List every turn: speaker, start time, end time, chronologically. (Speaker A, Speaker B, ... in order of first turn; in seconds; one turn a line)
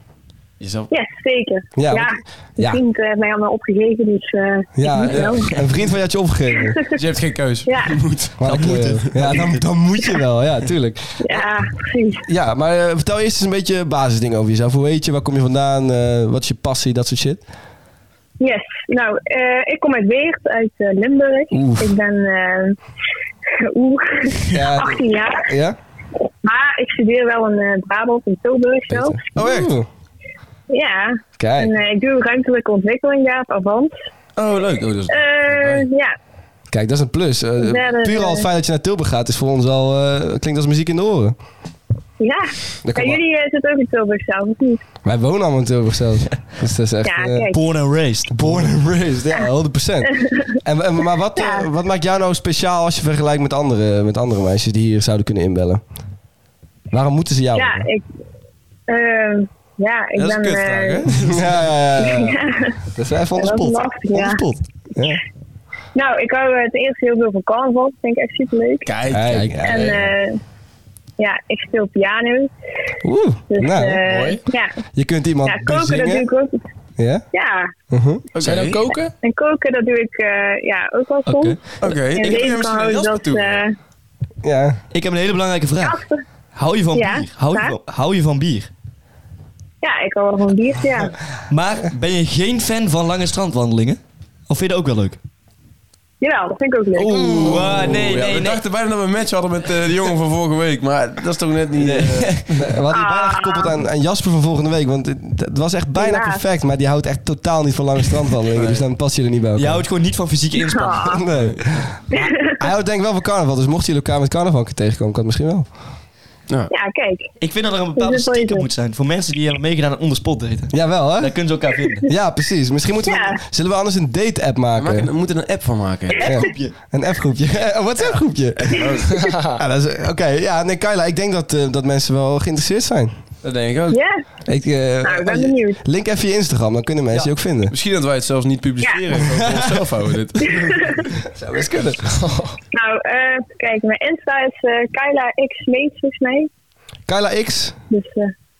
Speaker A: 0.6-0.9
Speaker B: 0.9-5.5
Speaker C: 1.8-2.8
Speaker C: 4.7-6.8
Speaker D: 5.1-5.6
Speaker B: 6.5-7.0
Speaker A: 7.0-8.4
Speaker B: 7.7-8.0
Speaker C: 8.4-11.4
Speaker D: 8.4-9.5
Speaker A: 9.2-9.5
Speaker B: 11.2-12.3
Speaker C: 12.2-17.4
Speaker B: 18.4-22.8
Speaker C: 21.5-21.9
Speaker B: 23.6-25.5
Speaker C: 24.5-25.8
Speaker B: 26.4-29.2
Speaker C: 28.9-29.9
Speaker A: 29.4-29.7
Speaker B: 30.7-34.0
Speaker C: 31.4-31.7
Speaker A: 34.4-35.9
Speaker B: 35.1-36.1
Speaker C: 36.7-41.4
Speaker B: 37.6-38.5
Speaker B: 42.2-44.8
Speaker C: 42.8-43.2
Speaker C: 45.0-47.5
Speaker B: 47.0-47.6
Speaker D: 47.5-48.7
Speaker C: 48.3-55.8
Speaker B: 51.4-51.6
Speaker C: 56.9-57.9
Speaker B: 57.5-58.0
Speaker B: 58.9-61.1
Speaker A: 60.1-61.6
Speaker C: 61.2-62.4
Speaker B: 62.0-62.7
Speaker C: 62.9-65.2
Speaker B: 63.3-64.4
Speaker B: 65.9-69.0
Speaker A: 68.8-69.9
Speaker C: 69.1-70.0
Speaker D: 69.3-69.6
Speaker B: 69.6-70.4
Speaker B: 71.2-72.5
Speaker C: 73.0-74.0
Speaker B: 73.5-74.7
Speaker E: 74.1-74.4
Speaker C: 74.9-76.2
Speaker B: 75.4-76.6
Speaker C: 77.0-77.2
Speaker B: 77.3-77.7
Speaker C: 77.9-78.2
Speaker A: 78.3-78.8
Speaker E: 78.4-79.1
Speaker B: 79.2-83.8
Speaker D: 81.2-81.6
Speaker A: 81.8-83.6
Speaker C: 84.4-84.8
Speaker D: 84.9-86.0
Speaker B: 85.8-86.2
Speaker D: 86.5-88.7
Speaker B: 86.9-87.7
Speaker B: 89.8-91.1
Speaker D: 91.5-95.2
Speaker B: 96.2-97.5
Speaker D: 97.0-98.6
Speaker A: 97.3-102.6
Speaker D: 101.8-102.5
Speaker C: 102.5-109.8
Speaker B: 102.9-103.8
Speaker B: 106.0-106.4
Speaker A: 108.5-108.8
Speaker D: 109.6-111.2
Speaker B: 110.6-111.2
Speaker C: 111.0-115.7
Speaker B: 112.1-112.5
Speaker B: 116.7-117.3
Speaker D: 117.4-122.0
Speaker B: 118.0-118.7
Speaker C: 120.7-121.3
Speaker C: 122.0-125.1
Speaker B: 123.0-123.4
Speaker A: 124.8-126.3
Speaker C: 126.2-133.1
Speaker D: 126.2-126.7
Speaker A: 128.7-129.1
Speaker E: 129.1-129.6
Speaker A: 133.4-134.0
Speaker B: 133.9-134.2
Speaker C: 134.5-137.7
Speaker B: 135.0-135.8
Speaker A: 137.7-140.9
Speaker C: 139.3-139.8
Speaker B: 140.4-141.1
Speaker C: 141.2-142.1
Speaker E: 142.1-142.6
Speaker B: 142.7-146.5
Speaker C: 147.1-147.7
Speaker B: 147.9-148.3